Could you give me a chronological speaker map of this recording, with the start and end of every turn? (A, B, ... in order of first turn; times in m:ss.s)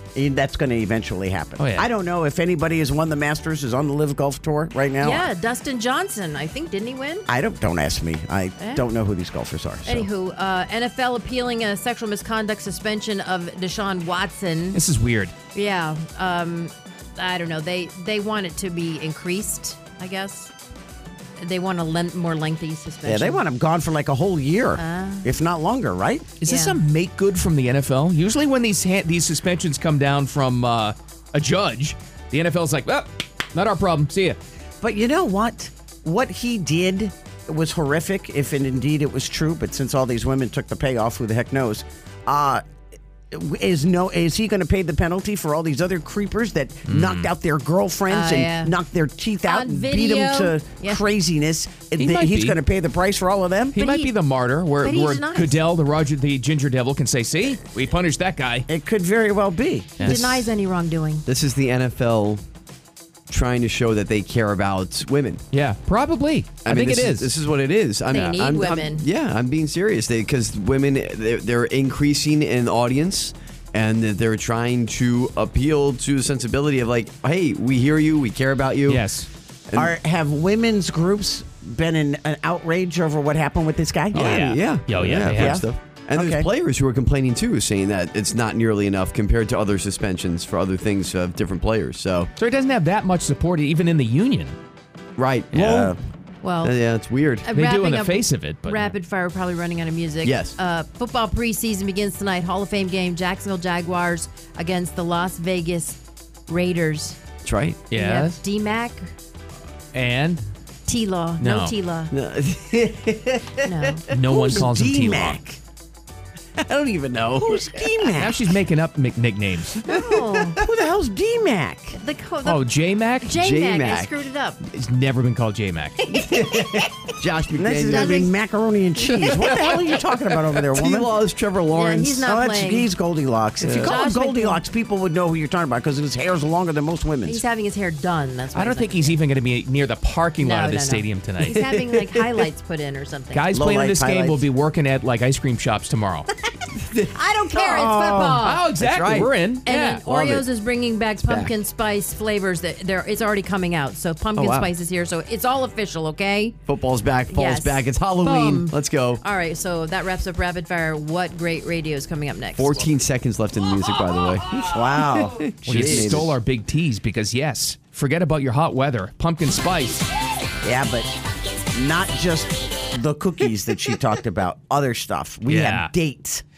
0:00.2-0:05.3 A
0:01.6-0:01.9 B
0:05.0-0:07.3 C
0:07.3-0:10.1 A
0:09.8-0:14.8 C
0:14.7-0:15.3 B
0:15.5-0:20.5 C
0:21.4-0:23.4 C
0:23.0-0:26.3 A
0:24.8-0:25.3 C
0:26.4-0:34.4 B
0:26.5-0:26.8 C
0:34.8-0:42.6 A
0:43.3-0:53.8 A
0:46.9-0:47.3 B
0:48.1-0:48.7 C
0:49.5-0:51.0 C
0:52.0-0:52.6 B
0:53.7-0:58.7 B
0:53.8-0:54.1 C
0:54.8-0:55.6 C
0:58.7-1:00.2 A
1:00.0-1:00.4 D
1:00.0-1:01.2 C
1:01.3-1:02.4 D
1:03.3-1:05.4 D
1:05.5-1:07.3 B
1:06.6-1:19.1 D
1:08.1-1:09.1 C
1:18.9-1:19.3 B
1:19.8-1:24.5 A
1:24.1-1:25.6 B
1:24.1-1:32.3 D
1:25.2-1:26.5 A
1:32.4-1:34.6 B
1:35.2-1:36.0 D
1:35.5-1:35.9 B
1:35.6-1:35.9 A
1:36.4-1:36.8 C
1:36.6-1:37.5 D
1:37.4-1:47.2 C
1:37.5-1:38.9 B
1:40.2-1:40.5 D
1:47.4-1:47.8 D
1:47.9-1:48.4 B
1:47.9-1:49.1 C
1:49.9-1:50.4 B
1:50.9-1:52.1 C
1:51.4-1:51.8 B
1:52.1-1:53.5 D
1:53.6-1:54.1 C
1:54.1-1:55.4 B
1:54.1-1:55.6 A
1:56.6-1:57.6 D
1:56.7-1:58.6 A
1:58.2-1:59.8 B
1:59.8-2:00.6 C
1:59.9-2:02.0 A
2:01.9-2:02.6 C
2:02.4-2:03.4 B
2:03.2-2:04.6 C
2:03.3-2:04.2 D
2:04.7-2:06.1 B
2:06.1-2:06.7 C
2:06.2-2:08.3 D
2:07.5-2:11.2 A
2:07.9-2:08.3 C
2:09.1-2:12.2 D
2:11.8-2:12.9 C
2:12.0-2:17.4 A
2:13.6-2:14.0 D
2:13.7-2:14.6 C
2:17.2-2:19.2 C
2:18.6-2:21.6 B
2:20.4-2:23.5 C
2:23.3-2:26.3 B
2:23.5-2:24.5 A
2:27.0-2:28.7 C
2:27.6-2:29.3 A
2:28.4-2:30.4 B
2:28.8-2:29.3 D
2:29.6-2:36.6 C
2:31.2-2:31.5 D
2:34.4-2:34.7 D
2:36.7-2:39.2 D
2:37.3-2:42.7 C
2:42.6-2:46.3 D
2:44.7-2:46.3 A
2:45.7-2:50.1 B
2:50.6-2:51.1 A
2:51.7-2:56.4 A
2:55.5-2:55.9 B